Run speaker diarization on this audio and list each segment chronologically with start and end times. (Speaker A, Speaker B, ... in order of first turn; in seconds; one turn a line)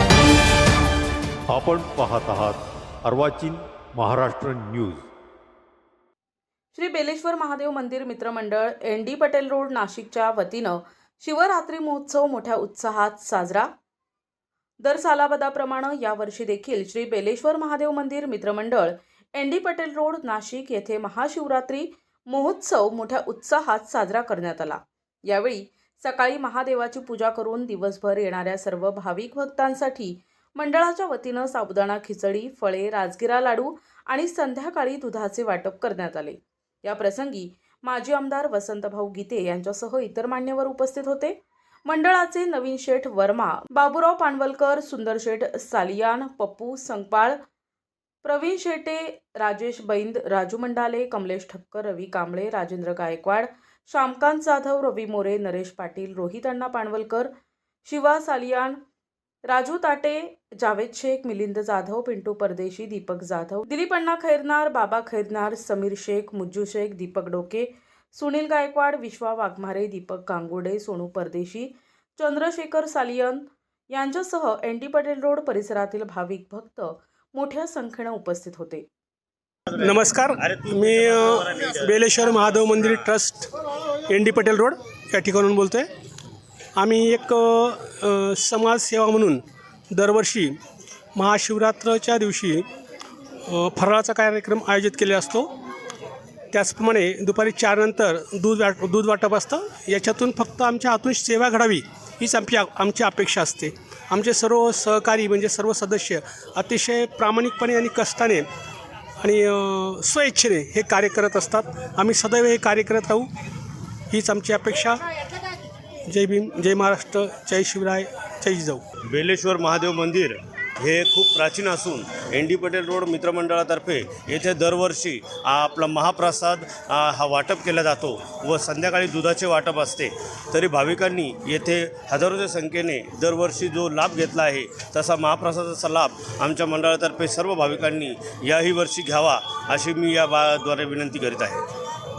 Speaker A: 1.5-5.1
Speaker B: 6.7-13.7
Speaker B: 14.8-47.4
Speaker B: 48.2-57.3
Speaker B: 57.8-58.8
Speaker B: 59.5-78.8
Speaker C: 79.8-83.5
Speaker D: 80.4-81.8
Speaker C: 84.1-85.9
Speaker C: 86.8-90.5
Speaker C: 91.1-92.6
Speaker C: 93.5-95.5
Speaker C: 96.5-108.5
Speaker C: 109.2-113.3
Speaker C: 114.1-115.0
Speaker C: 116.1-118.8
Speaker D: 119.1-141.6